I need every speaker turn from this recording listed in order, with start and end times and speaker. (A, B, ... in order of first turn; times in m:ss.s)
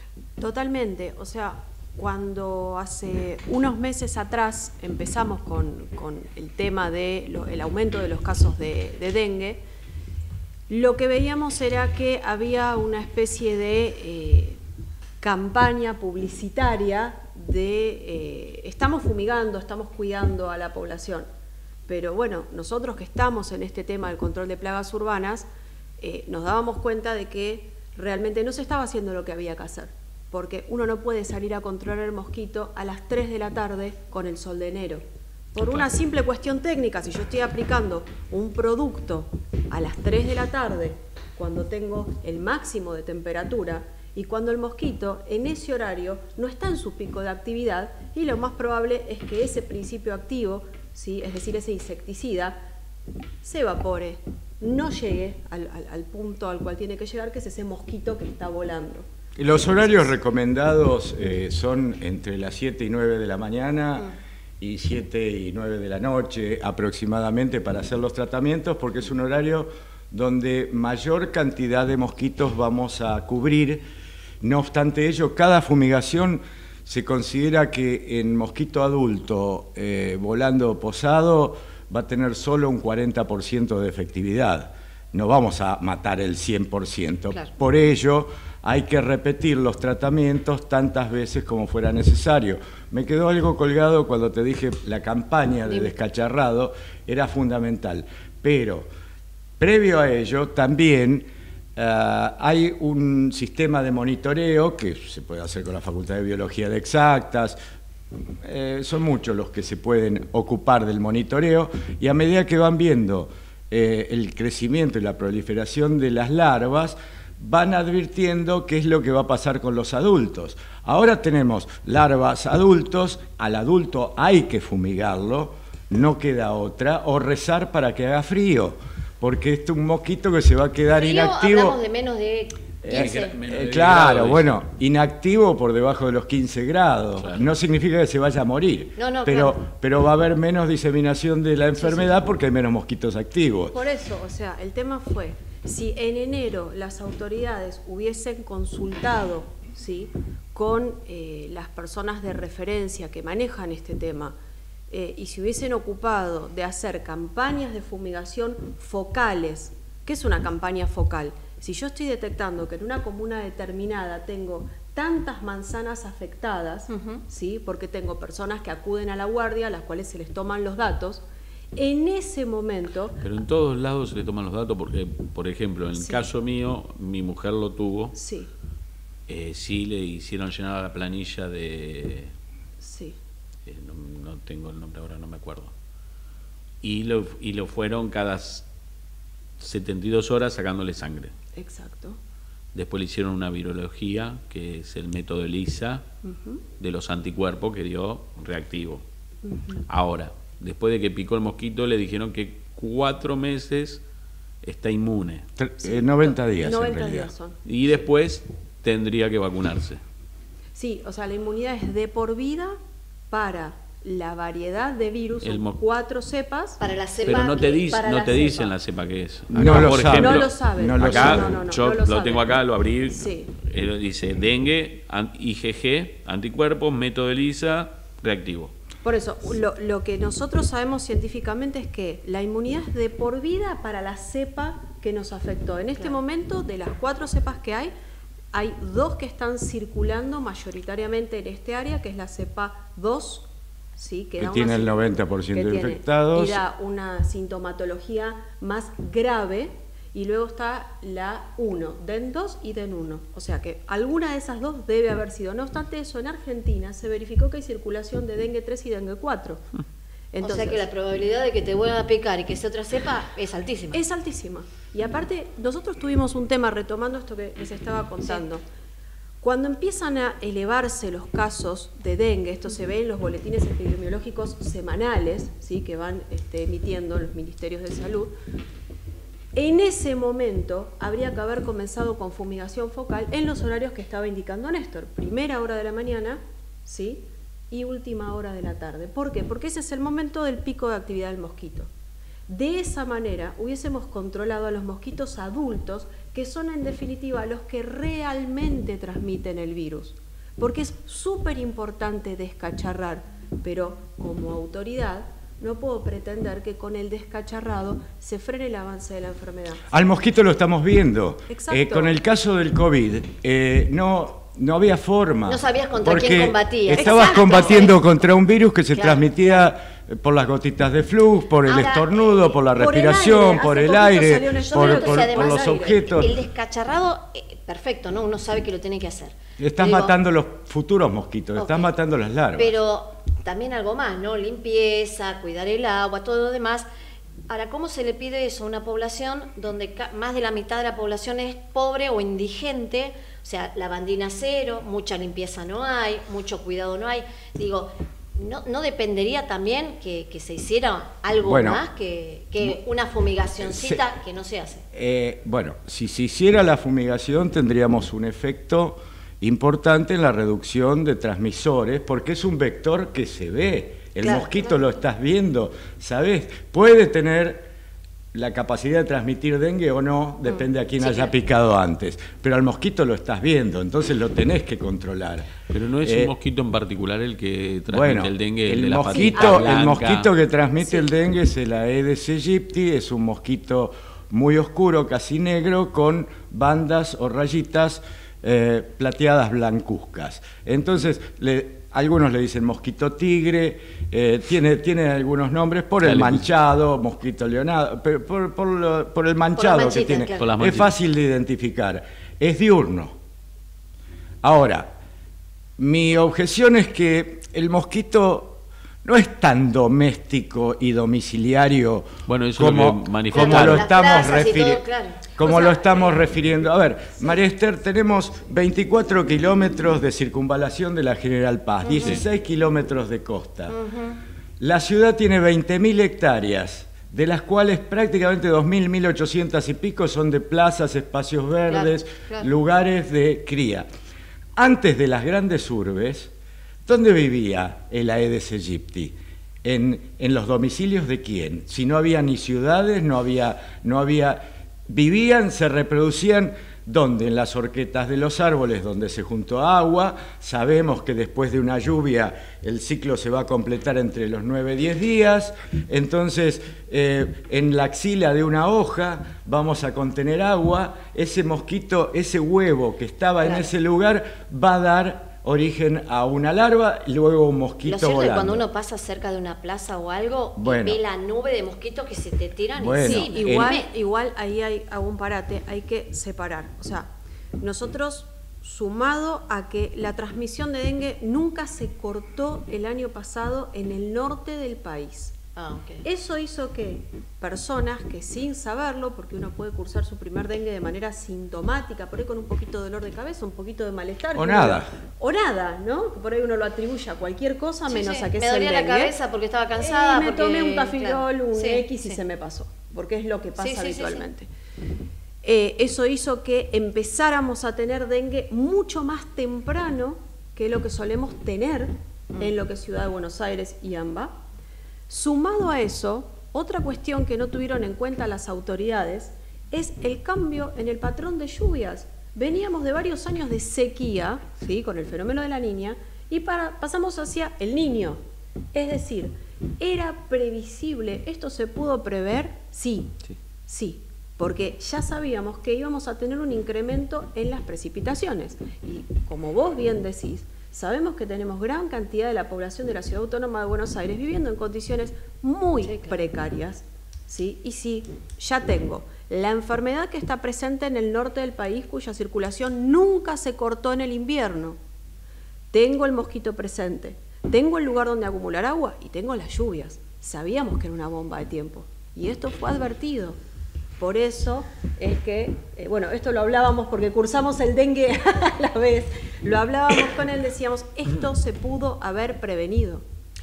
0:00.4-0:09.6 A
0:10.7-0:14.6 A
0:15.2-0:21.3 A
0:21.9-0:25.5 A
0:26.0-0:35.0 A
0:35.6-0:52.6 A
0:53.4-1:00.2 A
0:59.4-1:13.8 B
1:14.4-1:38.9 B
1:39.6-1:47.6 B
1:48.4-2:11.8 B
2:10.9-2:13.3 C
2:12.8-2:23.8 B
2:12.9-2:14.6 D
2:17.2-2:17.5 D
2:19.0-2:19.6 C
2:23.7-2:34.4 A
2:34.9-2:51.2 A
2:46.9-2:47.2 C
2:51.8-2:53.2 A
2:53.2-2:58.2 D
2:56.0-2:56.2 A
2:58.2-2:58.5 A
2:59.3-3:02.3 D
3:02.8-3:03.2 A
3:03.7-3:05.7 D
3:06.8-3:08.7 D
3:09.6-3:11.3 D
3:11.6-3:12.2 A
3:12.7-3:16.0 D
3:16.2-3:16.6 A
3:16.8-3:19.0 D
3:19.4-3:19.8 A
3:19.9-3:24.0 D
3:24.6-3:25.4 D
3:25.6-3:27.3 B
3:25.8-3:27.6 A
3:27.6-3:30.0 D
3:30.8-3:32.8 A
3:33.3-3:36.8 A
3:35.4-3:35.8 D
3:36.8-3:38.7 C
3:37.2-3:48.7 D
3:39.6-3:41.6 B
3:39.6-3:42.5 A
3:43.1-3:43.5 A
3:49.0-3:57.9 A
3:58.5-4:19.7 A
4:04.4-4:06.6 B
4:20.3-4:20.9 A
4:20.4-4:24.0 C
4:23.9-4:28.6 A
4:29.4-4:38.3 A
4:39.5-4:51.9 A
4:52.5-5:09.8 A
5:09.9-5:26.3 B
5:11.5-5:12.1 A
5:15.5-5:18.0 C
5:17.0-5:17.8 A
5:19.0-5:19.6 C
5:21.7-5:22.5 C
5:22.8-5:26.0 A
5:24.7-5:30.1 C
5:29.6-5:32.8 B
5:31.6-5:31.9 C
5:32.6-5:36.9 C
5:37.5-5:54.8 C
5:51.4-5:51.8 B
5:53.6-5:54.0 B
5:54.9-6:07.7 B
6:04.2-6:04.7 C
6:08.3-6:15.5 B
6:10.5-6:11.3 C
6:15.7-6:20.3 D
6:16.0-6:16.3 B
6:17.9-6:43.2 B
6:19.1-6:19.8 A
6:36.0-6:36.4 D
6:39.6-6:40.5 C
6:40.4-6:40.9 D
6:44.4-6:44.9 B
6:45.8-7:03.8 B
6:52.3-6:53.9 D
6:53.3-6:56.2 C
7:01.9-7:02.1 C
7:02.0-7:02.2 D
7:03.7-7:04.2 C
7:04.6-7:13.9 B
7:11.7-7:12.5 C
7:14.6-7:16.3 B
7:16.9-7:48.6 B
7:43.4-7:43.7 C
7:47.8-7:53.9 C
7:50.6-7:51.0 B
7:52.8-7:53.8 B
7:53.0-8:05.4 A
8:05.6-8:06.0 C
8:06.0-8:19.1 A
8:14.3-8:14.9 B
8:17.9-8:22.2 C
8:19.8-8:24.5 A
8:23.6-8:24.3 C
8:25.4-8:34.4 A
8:35.1-8:48.2 A
8:48.7-8:53.1 A
8:53.7-9:14.8 A
9:05.8-9:06.2 C
9:15.7-9:23.4 A
9:24.0-9:33.0 A